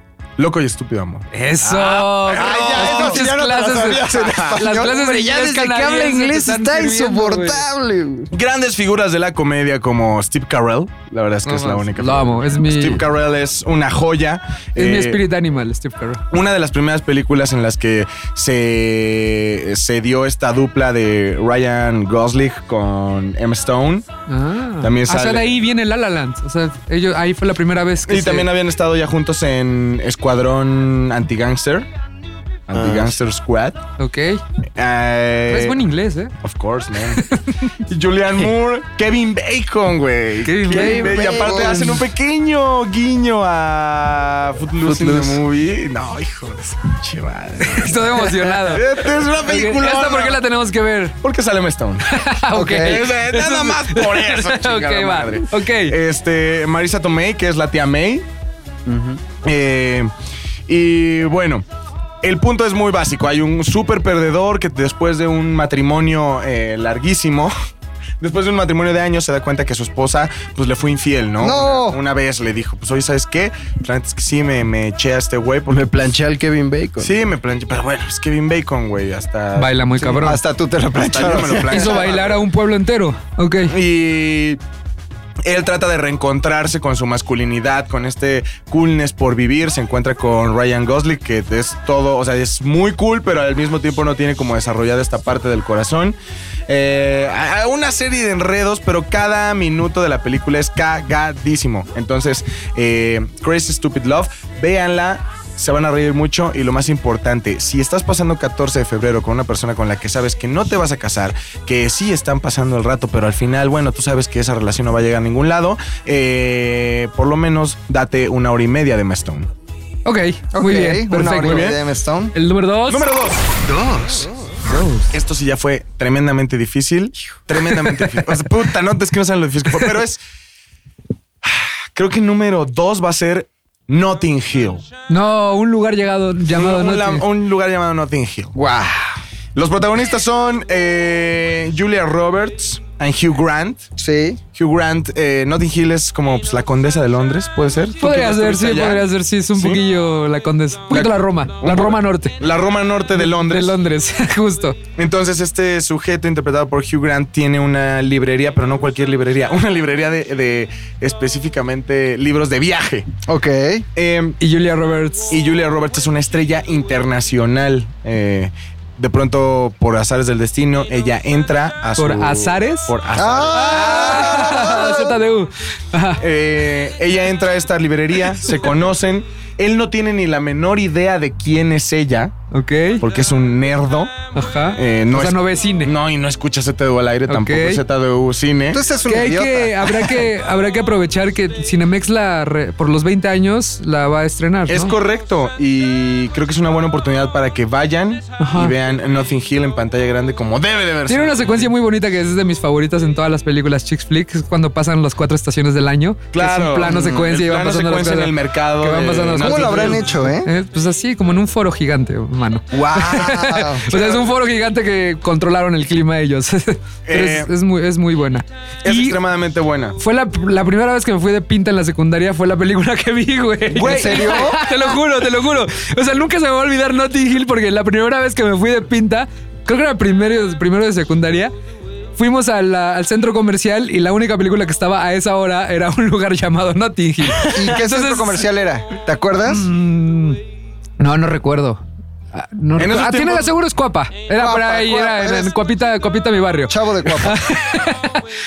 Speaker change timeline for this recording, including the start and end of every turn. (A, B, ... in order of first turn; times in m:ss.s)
0:00.4-0:03.2 A
0:01.3-0:07.6 B
0:02.3-0:08.3 C
0:04.1-0:04.6 A
0:08.3-0:15.2 A
0:11.4-0:13.0 B
0:14.8-0:16.2 B
0:16.3-0:24.0 A
0:24.3-0:28.5 B
0:24.8-0:25.6 A
0:28.1-0:31.9 A
0:32.7-0:33.8 A
0:32.7-0:33.1 D
0:34.0-0:34.4 B
0:34.8-0:35.8 A
0:35.5-0:36.3 B
0:36.4-0:37.2 A
0:37.1-0:37.5 B
0:37.9-0:50.4 A
0:40.4-0:41.9 B
0:40.7-0:41.6 D
0:40.8-0:42.0 C
0:44.8-0:45.4 D
0:47.6-0:51.2 B
0:51.2-0:52.0 A
0:52.1-0:55.9 B
0:52.5-0:53.0 C
0:52.8-0:58.2 A
0:58.8-0:59.2 D
0:59.4-1:00.1 A
1:00.7-1:01.6 A
1:02.2-1:07.5 A
1:08.2-1:16.1 A
1:11.4-1:12.0 C
1:15.7-1:17.2 D
1:17.0-1:19.7 A
1:19.6-1:20.4 B
1:20.0-1:22.1 C
1:20.9-1:22.4 A
1:21.4-1:23.7 B
1:23.7-1:24.6 A
1:25.4-1:36.2 A
1:36.7-1:59.5 A
2:00.0-2:01.8 B
2:00.5-2:02.3 C
2:01.2-2:01.8 A
2:02.3-2:03.1 B
2:02.9-2:03.4 A
2:03.6-2:04.8 C
2:05.1-2:10.2 A
2:11.4-2:14.8 A
2:15.1-2:17.2 B
2:16.5-2:18.5 A
2:18.5-2:19.2 C
2:19.5-2:23.8 A
2:24.0-2:24.4 C
2:24.5-2:29.8 A
2:28.0-2:32.4 B
2:30.9-2:33.7 A
2:33.2-2:34.8 B
2:35.0-2:43.1 A
2:43.2-2:43.8 C
2:44.0-2:44.4 A
2:44.4-2:45.3 B
2:45.3-2:54.8 A
2:52.0-2:52.9 B
2:53.1-2:55.1 C
2:53.5-2:56.2 B
2:56.2-3:02.3 A
3:02.5-3:03.0 B
3:03.0-3:04.1 A
3:04.3-3:05.9 B
3:04.8-3:08.8 A
3:07.3-3:07.8 B
3:08.7-3:10.2 C
3:09.0-3:14.9 B
3:14.7-3:21.7 A
3:18.4-3:18.7 B
3:21.1-3:39.2 B
3:26.3-3:30.1 A
3:26.8-3:27.3 C
3:29.4-3:30.5 C
3:32.7-3:33.9 C
3:33.9-3:34.3 A
3:37.1-3:37.5 A
3:38.8-3:40.0 A
3:40.0-3:51.5 B
3:43.7-3:44.6 A
3:43.7-3:44.7 C
3:52.2-3:58.4 B
3:57.4-3:59.7 C
3:59.4-4:00.4 B
4:01.0-4:01.8 B
4:02.3-4:08.2 B
4:02.8-4:03.5 A
4:04.3-4:05.5 C
4:06.7-4:07.4 C